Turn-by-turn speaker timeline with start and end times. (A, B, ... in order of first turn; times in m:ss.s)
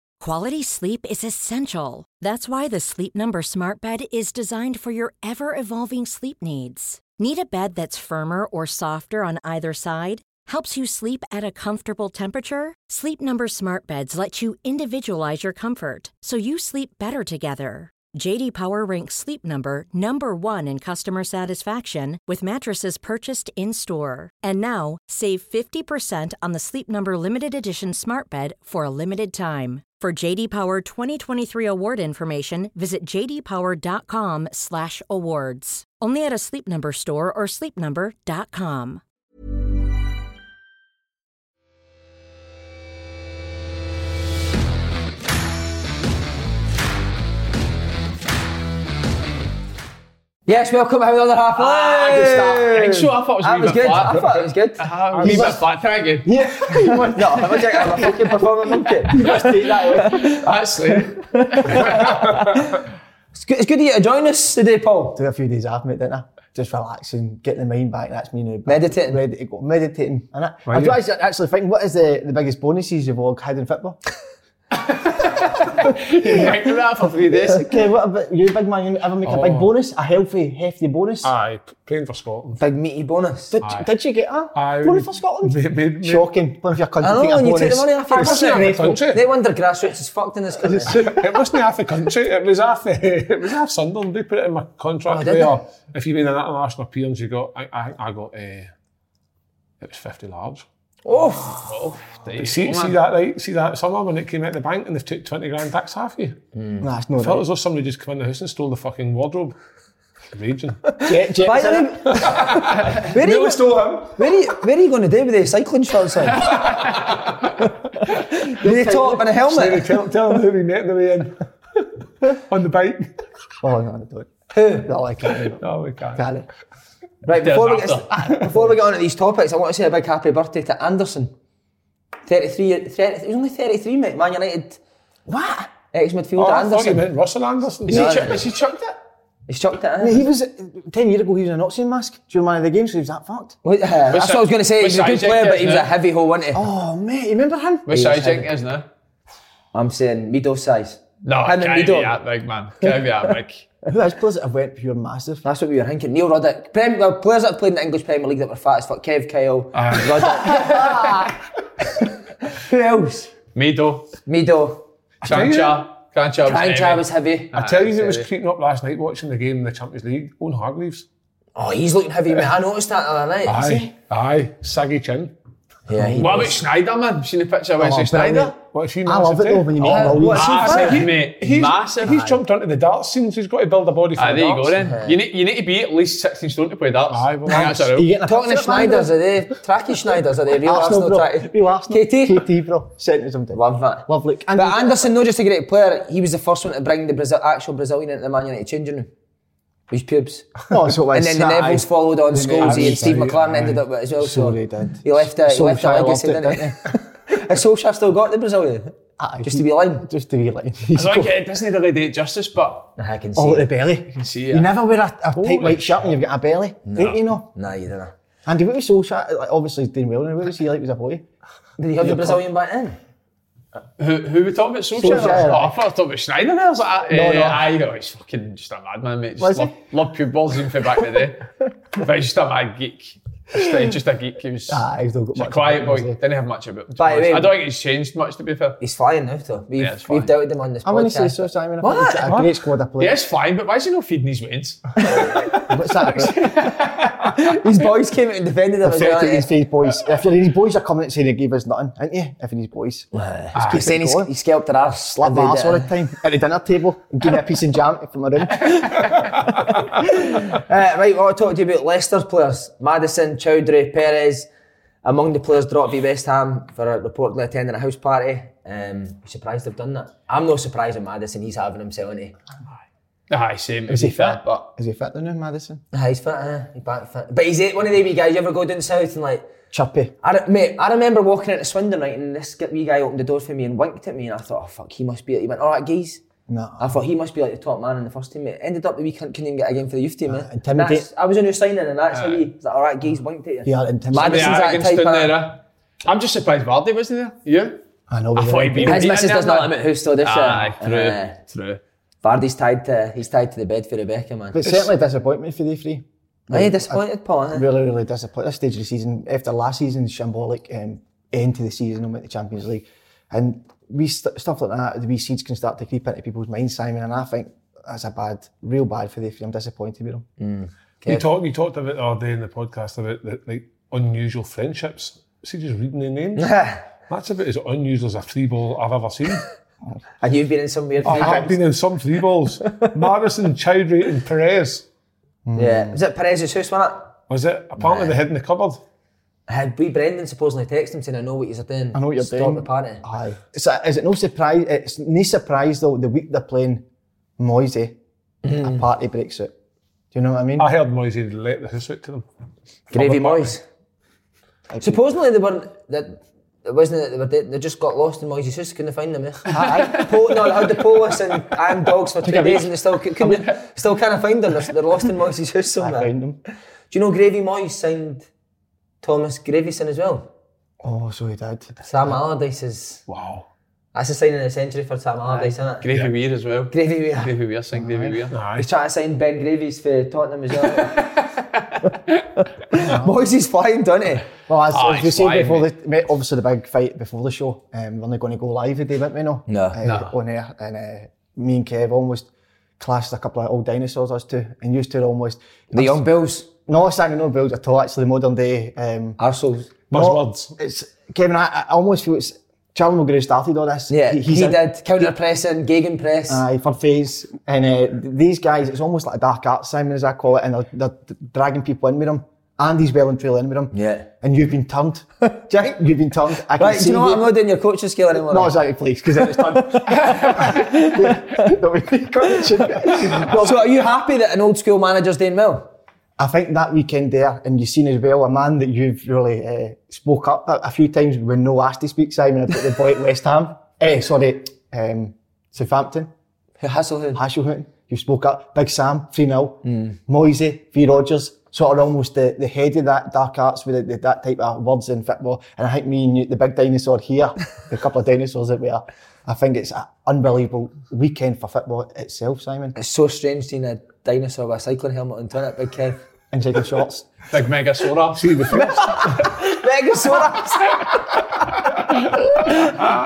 0:00.2-0:39.0 A
0:50.5-0:54.8 B
0:51.8-0:52.7 C
0:52.5-0:54.3 D
0:54.8-0:56.3 D
0:55.1-0:55.5 E
0:55.2-0:55.6 C
0:56.2-1:00.4 C
0:56.7-1:00.4 B
1:00.0-1:01.9 D
1:01.3-1:02.8 B
1:01.7-1:02.0 C
1:01.8-1:02.5 E
1:03.3-1:05.2 B
1:05.2-1:14.0 C
1:08.7-1:09.2 B
1:10.7-1:11.0 E
1:14.7-1:17.8 D
1:16.2-1:16.5 C
1:17.4-1:21.3 C
1:19.2-1:19.7 E
1:21.2-1:22.6 E
1:22.6-1:23.6 B
1:23.5-1:29.0 C
1:23.6-1:23.9 E
1:24.5-1:26.3 E
1:27.0-1:30.9 B
1:28.1-1:29.2 E
1:28.3-1:28.6 D
1:30.6-1:31.3 C
1:30.9-1:38.7 E
1:35.1-1:35.6 B
1:39.8-1:40.6 E
1:41.0-1:41.7 B
1:41.6-1:43.0 D
1:42.4-1:46.4 E
1:46.5-1:46.8 B
1:46.8-1:47.4 C
1:47.2-1:49.5 E
1:50.3-1:51.3 E
1:51.0-1:56.7 B
1:51.0-1:52.3 C
1:52.1-1:54.2 E
1:56.6-1:56.8 E
1:58.0-1:59.9 B
1:58.5-1:59.2 C
1:59.3-2:01.4 E
2:02.3-2:03.1 E
2:03.6-2:05.6 C
2:04.5-2:04.9 B
2:05.6-2:06.2 E
2:06.1-2:06.5 C
2:07.2-2:11.3 B
2:07.3-2:08.0 D
2:08.4-2:08.7 C
2:12.3-2:14.8 B
2:15.3-2:15.7 C
2:15.9-2:17.1 B
2:16.4-2:18.3 E
2:17.9-2:18.9 D
2:17.9-2:18.4 B
2:19.5-2:20.2 B
2:20.0-2:23.6 C
2:23.6-2:26.6 B
2:24.1-2:25.9 D
2:26.5-2:27.9 C
2:27.9-2:28.8 D
2:27.9-2:28.5 B
2:29.7-2:32.1 B
2:31.2-2:33.6 D
2:33.8-2:35.4 C
2:35.4-2:41.3 B
2:39.9-2:41.2 D
2:42.4-2:43.3 B
2:43.5-2:44.1 D
2:44.2-2:44.8 B
2:45.2-2:45.8 E
2:45.2-2:48.3 D
2:46.4-2:47.5 B
2:47.5-2:51.0 E
2:51.6-2:53.8 B
2:53.4-2:55.3 E
2:53.6-2:53.9 C
2:55.9-2:56.6 B
2:55.9-2:56.5 C
2:56.2-2:58.5 D
2:57.8-3:00.9 C
2:58.7-3:04.8 E
2:59.8-3:02.2 D
2:59.9-3:01.1 B
3:04.2-3:08.1 D
3:04.8-3:05.2 B
3:07.1-3:07.8 E
3:07.5-3:09.1 C
3:08.2-3:12.4 B
3:10.6-3:15.1 C
3:13.5-3:19.1 B
3:19.9-3:20.6 B
3:20.7-3:27.0 C
3:21.1-3:30.0 B
3:22.4-3:23.8 E
3:29.2-3:31.3 C
3:30.9-3:32.9 D
3:33.0-3:33.7 B
3:33.4-3:37.5 C
3:34.2-3:34.7 D
3:35.4-3:36.1 E
3:36.8-3:38.1 B
3:38.4-3:41.3 C
3:41.8-3:43.0 B
3:42.0-3:42.4 C
3:44.0-3:54.8 D
3:44.9-3:45.8 C
3:47.1-3:47.6 C
3:49.4-3:49.7 C
3:54.7-3:56.2 C
3:55.3-3:58.8 D
3:57.0-3:57.5 B
3:58.8-4:02.3 B
3:59.8-4:00.3 D
4:00.8-4:03.2 C
4:03.0-4:07.3 D
4:05.6-4:06.5 C
4:07.2-4:09.5 B
4:08.8-4:14.3 C
4:13.1-4:15.9 B
4:13.6-4:13.8 E
4:15.2-4:19.3 C
4:20.0-4:24.5 B
4:25.0-4:32.3 B
4:33.3-4:34.6 D
4:33.9-4:35.8 C
4:35.9-4:39.5 B
4:39.7-4:40.1 C
4:40.2-4:46.2 B
4:46.5-4:47.0 C
4:46.8-4:55.4 B
4:50.3-4:51.1 C
4:52.1-4:52.5 D
4:53.6-4:54.7 C
4:54.1-4:57.8 D
4:58.1-4:59.2 C
4:58.3-5:01.8 D
4:58.8-5:01.4 B
5:02.2-5:04.6 B
5:04.5-5:20.3 C
5:06.5-5:07.7 B
5:20.4-5:21.2 B
5:21.0-5:26.5 E
5:26.4-5:26.8 B
5:27.1-5:29.4 E
5:30.2-5:31.6 B
5:31.0-5:31.5 C
5:31.0-5:34.8 E
5:35.4-5:36.0 C
5:35.5-5:37.1 B
5:37.3-5:38.8 E
5:37.8-5:38.1 B
5:39.5-5:43.0 B
5:41.9-5:46.8 C
5:47.4-5:48.0 C
5:48.4-5:48.8 B
5:48.6-5:49.5 C
5:50.1-5:50.7 C
5:50.6-5:52.2 E
5:52.9-5:53.6 B
5:52.9-5:53.6 E
5:54.7-5:55.0 C
5:54.8-6:06.1 B
5:59.5-6:00.0 C
5:59.6-6:00.1 D
6:02.2-6:02.7 C
6:03.2-6:03.6 D
6:05.8-6:06.4 C
6:06.9-6:08.3 B
6:09.0-6:10.3 B
6:10.8-6:11.8 C
6:11.8-6:13.0 B
6:13.1-6:13.4 E
6:13.9-6:15.8 B
6:15.3-6:18.4 D
6:16.7-6:17.3 B
6:17.7-6:18.2 C
6:18.3-6:18.7 E
6:18.6-6:21.0 B
6:20.8-6:21.2 D
6:22.4-6:24.3 B
6:22.8-6:23.1 C
6:24.5-6:36.0 C
6:24.7-6:25.7 D
6:29.5-6:29.8 B
6:35.7-6:36.5 B
6:36.6-6:39.2 C
6:39.2-6:39.7 B
6:39.9-6:40.5 E
6:39.9-6:44.6 C
6:43.9-6:46.4 B
6:46.3-6:57.3 C
6:53.7-6:54.1 B
6:56.6-6:58.5 B
6:58.3-7:03.6 C
6:59.1-7:01.5 B
7:00.0-7:00.5 D
7:02.9-7:05.7 B
7:06.2-7:16.1 C
7:16.6-7:17.2 B
7:17.1-7:32.7 C
7:19.6-7:20.0 B
7:32.7-7:36.0 B
7:36.3-7:37.1 C
7:37.3-7:38.6 D
7:38.1-7:39.4 E
7:39.0-7:40.9 B